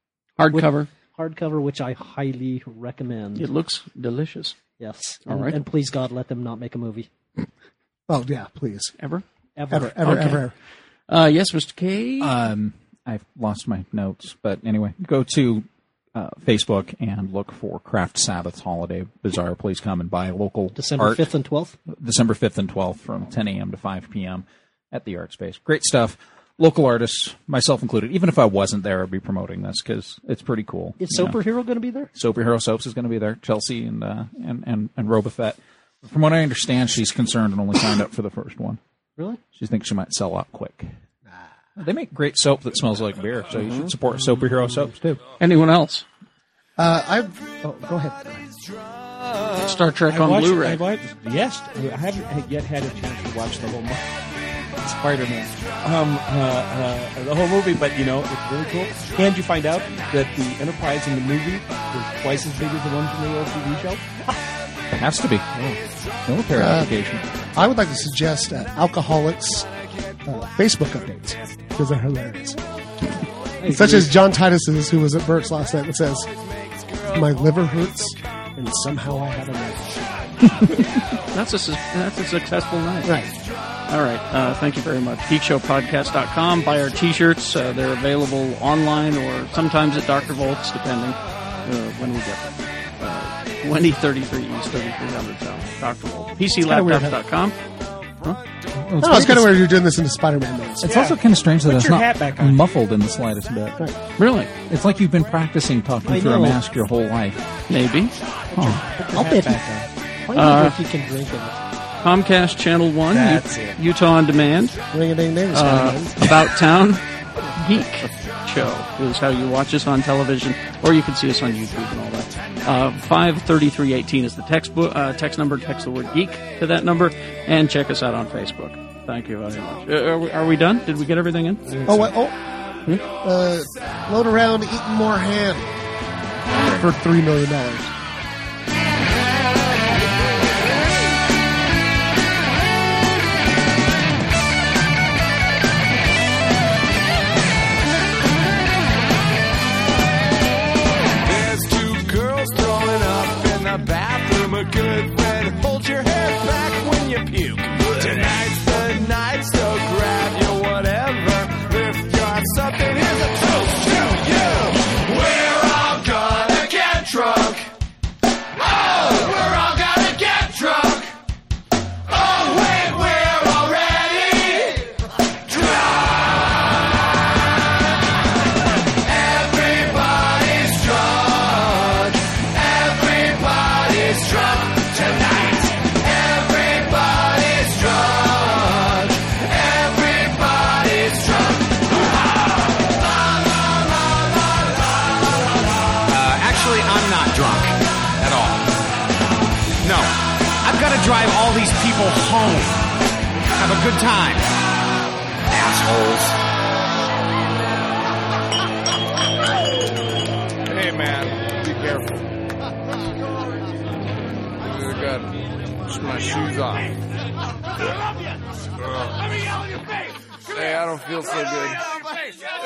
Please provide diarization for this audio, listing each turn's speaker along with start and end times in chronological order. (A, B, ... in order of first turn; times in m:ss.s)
0:00.4-0:00.9 A
0:00.5-0:03.5 B
0:03.3-0:04.6 A
0:04.8-0:07.1 B
0:05.2-0:05.6 A
0:08.1-0:08.9 C
0:09.0-0:09.2 A
0:09.6-0:09.9 B
0:09.7-0:10.5 C
0:10.0-0:10.4 A
0:11.1-0:12.3 A
0:12.2-0:21.3 D
0:20.8-0:21.7 B
0:21.9-0:31.4 D
0:31.0-0:32.1 B
0:32.1-0:38.8 D
0:39.5-0:40.9 D
0:41.8-0:45.2 D
0:45.4-0:46.0 A
0:46.8-0:48.4 C
0:49.6-0:50.8 A
0:50.1-0:54.1 E
0:54.8-1:04.2 E
1:04.9-1:05.6 D
1:06.2-1:07.3 D
1:06.5-1:07.0 C
1:07.5-1:09.7 C
1:10.2-1:12.6 C
1:13.6-1:14.1 B
1:13.7-1:16.3 C
1:17.0-1:20.0 C
1:21.3-1:23.1 A
1:23.0-1:23.3 C
1:23.9-1:37.6 A
1:36.6-1:37.2 C
1:38.8-1:39.7 D
1:39.0-1:41.0 C
1:40.8-1:43.8 D
1:40.8-1:42.6 E
1:44.2-1:44.5 A
1:44.7-1:47.4 D
1:46.1-1:46.6 B
1:47.7-1:48.1 A
1:48.5-1:49.6 B
1:48.5-1:48.8 D
1:49.1-1:49.9 E
1:50.2-1:51.6 B
1:50.3-1:50.8 A
1:52.0-1:54.8 A
1:53.1-1:53.8 E
1:54.9-1:56.2 C
1:55.5-1:57.0 A
1:57.6-2:11.8 A
2:11.8-2:12.3 C
2:13.2-2:15.7 C
2:16.7-2:17.9 C
2:31.2-2:47.5 F
2:49.1-2:51.0 F
3:16.1-3:18.7 G
3:19.8-3:22.9 G
3:23.5-3:24.5 G
3:25.5-3:26.3 G
3:30.7-3:32.3 F
3:34.6-3:35.3 F
3:35.8-3:37.0 F
3:38.8-3:39.2 F
3:40.5-3:42.0 F